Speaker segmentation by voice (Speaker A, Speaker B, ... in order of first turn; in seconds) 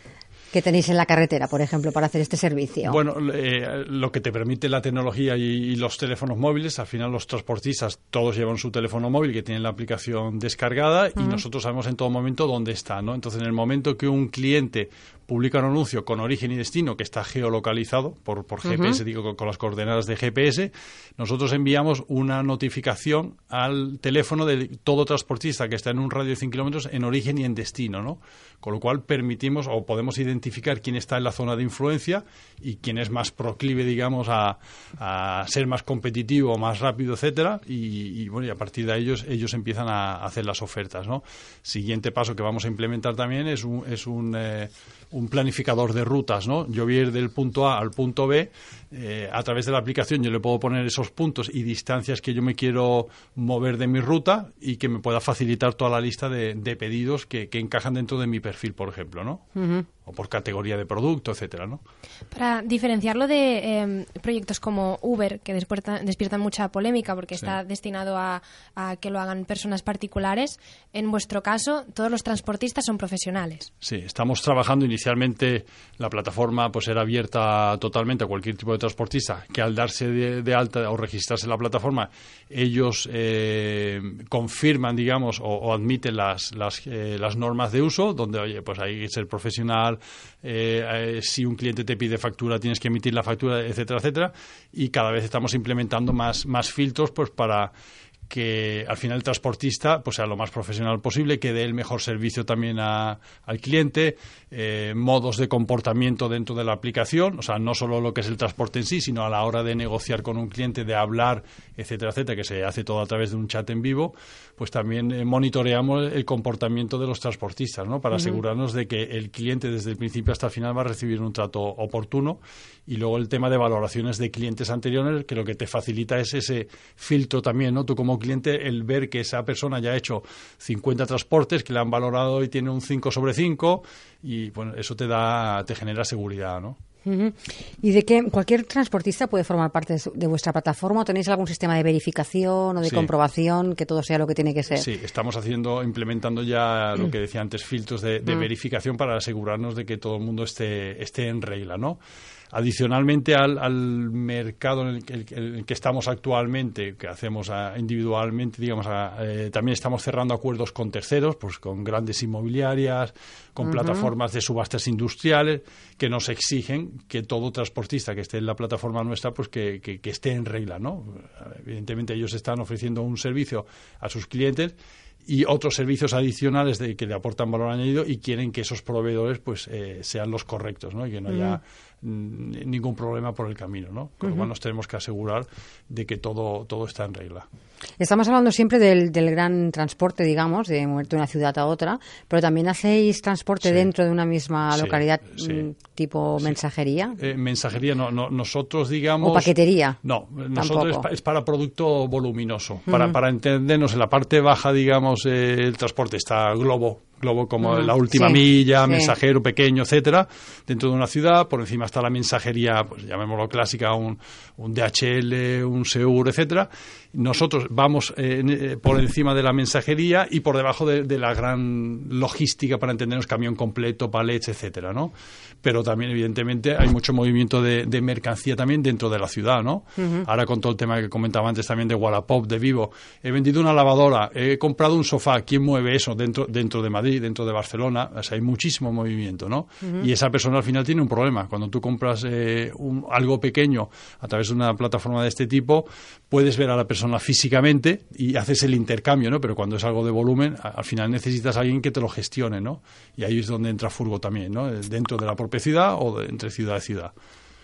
Speaker A: 0.5-3.0, 18.6-19.0, 59.5-59.9, 137.0-144.9, 163.7-164.1, 181.3-181.6, 188.0-197.2, 199.2-200.0, 200.5-201.0, 202.9-203.1, 207.6-209.1, 230.0-230.2, 239.8-240.1
Speaker B: 2.8-59.4, 60.0-61.8, 73.8-97.7, 98.3-136.8, 142.8-143.1, 144.8-152.0, 152.5-187.5, 194.7-195.7, 197.2-225.1, 225.6-257.1
Speaker C: 62.3-73.7